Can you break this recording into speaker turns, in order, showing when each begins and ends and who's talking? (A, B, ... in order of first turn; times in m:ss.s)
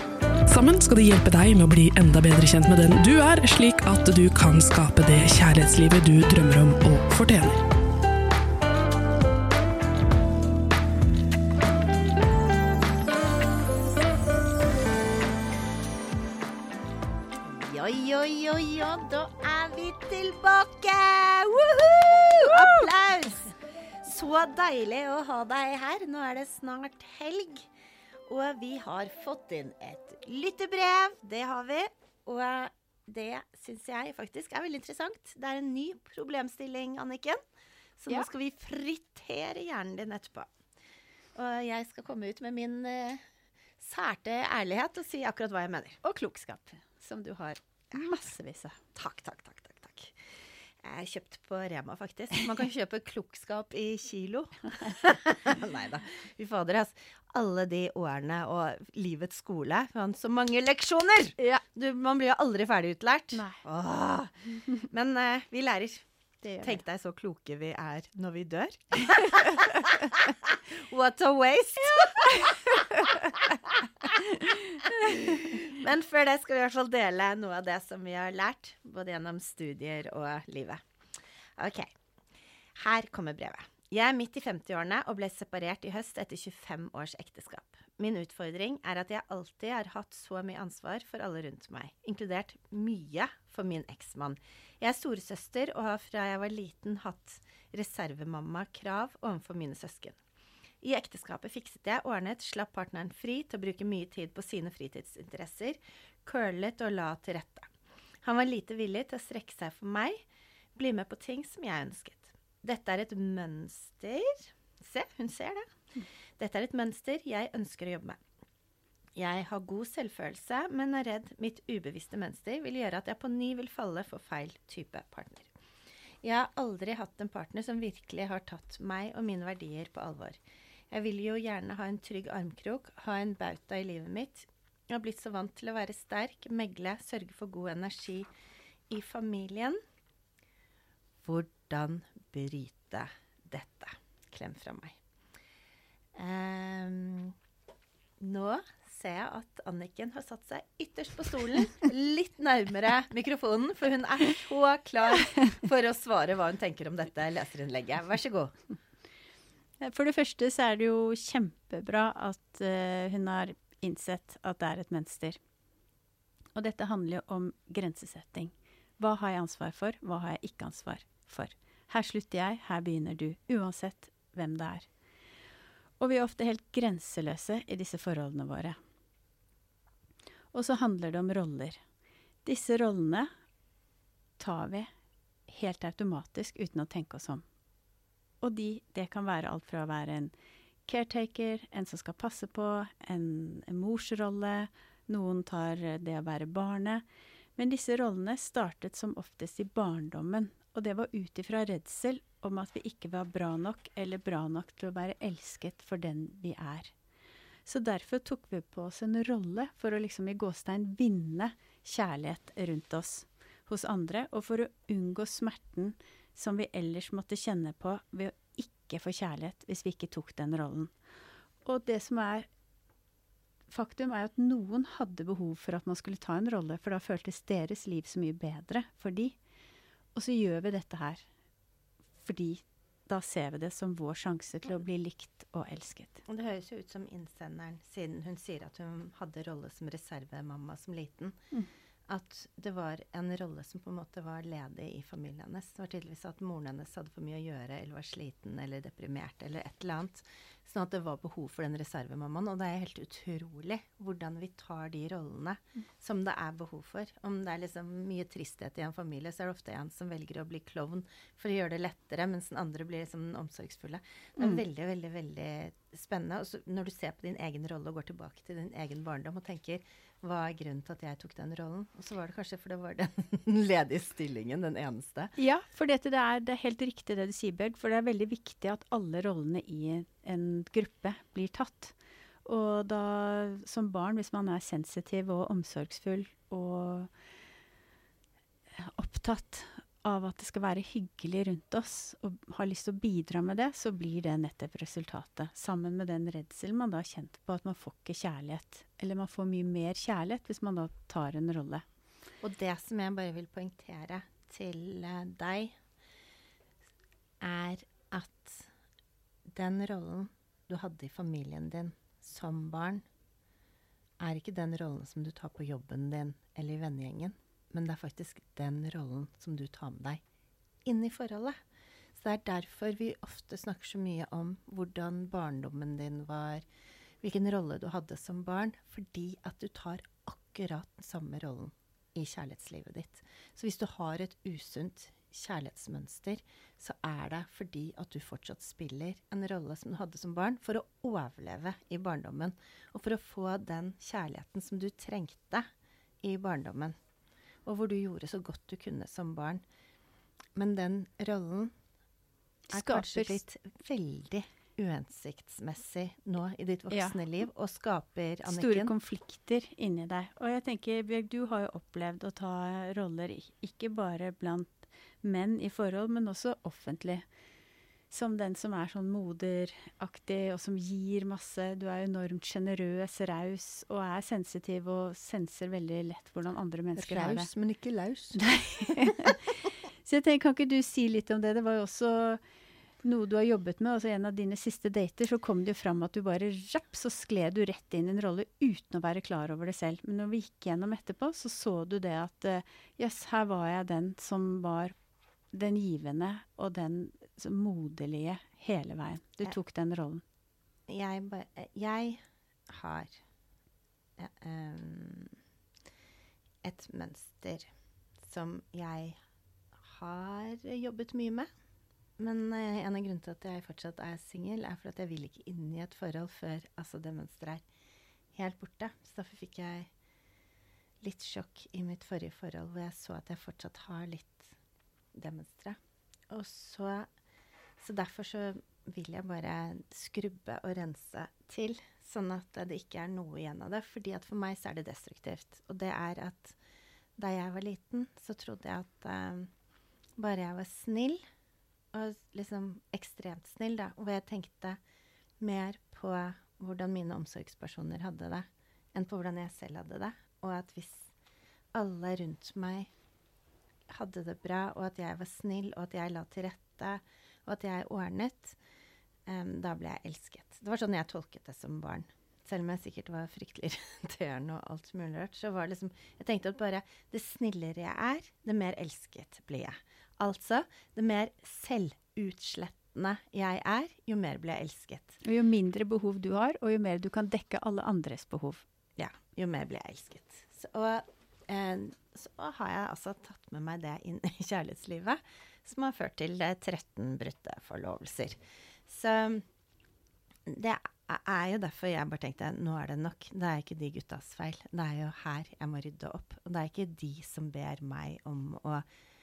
0:00.4-0:07.6 A
0:17.4-0:27.7 B
0:28.3-0:37.4 B
0:38.0-0:40.5 B
0:41.3-0:43.2 B
0:43.8-0:46.0 B
0:46.0-0:48.8 C
0:48.9-0:50.1 B
0:50.8-1:06.0 B
1:03.3-1:03.6 C
1:06.4-1:06.8 C
1:06.6-1:20.8 B
1:21.6-1:21.9 B
1:22.8-1:40.2 B
1:40.8-1:47.7 B
1:48.2-1:50.2 B
1:50.7-1:55.6 B
1:56.4-1:58.2 B
1:59.2-2:05.5 B
2:06.2-2:10.4 B
2:10.9-2:18.3 B
2:18.9-2:19.8 B
2:21.2-2:25.0 B
2:26.1-2:27.4 B
2:28.2-2:38.5 B
2:39.8-2:45.4 C
2:46.5-2:54.9 C
2:56.0-2:58.8 C
3:00.5-3:01.8 C
3:02.4-3:03.3 C
3:04.4-3:04.9 C
3:05.5-3:07.4 C
3:08.4-3:10.3 C
3:10.8-3:17.0 C
3:17.6-3:26.9 C
3:27.6-3:40.9 C
3:41.6-3:42.5 C
3:43.7-3:49.4 C
3:50.1-3:51.2 C
3:52.2-3:56.2 C
3:56.2-4:01.4 B
4:02.1-4:35.3 B
4:35.4-4:47.1 C
4:48.7-5:01.8 C
5:02.4-5:05.7 B
5:07.4-5:08.7 B
5:09.5-5:13.0 B
5:14.2-5:20.2 B
5:20.8-5:21.6 B
5:22.1-5:26.6 B
5:27.2-5:45.6 B
5:46.2-5:46.9 B
5:47.6-5:49.6 B
5:50.6-5:51.7 B
5:52.7-5:53.4 C
5:52.7-5:58.9 B
5:56.9-5:57.2 C
5:58.4-6:07.2 C
6:08.1-6:17.5 C
6:17.0-6:18.4 B
6:18.4-6:22.4 C
6:23.0-6:34.9 C
6:35.5-6:40.2 C
6:40.9-6:43.2 B
6:44.2-6:45.4 B
6:46.6-6:47.7 B
6:48.2-6:49.2 B
6:49.8-6:51.5 B
6:52.2-6:57.6 B
6:58.3-6:59.9 B
7:01.0-7:04.5 B
7:05.1-7:05.8 B
7:06.3-7:07.1 B
7:07.8-7:16.6 B
7:17.2-7:19.5 B
7:20.2-7:21.2 B
7:21.9-7:24.8 B
7:25.4-7:31.1 B
7:31.7-7:32.9 B
7:33.9-7:38.6 B
7:39.3-7:55.2 B
7:55.2-7:58.6 C
7:59.0-8:09.4 B
8:10.4-8:18.8 B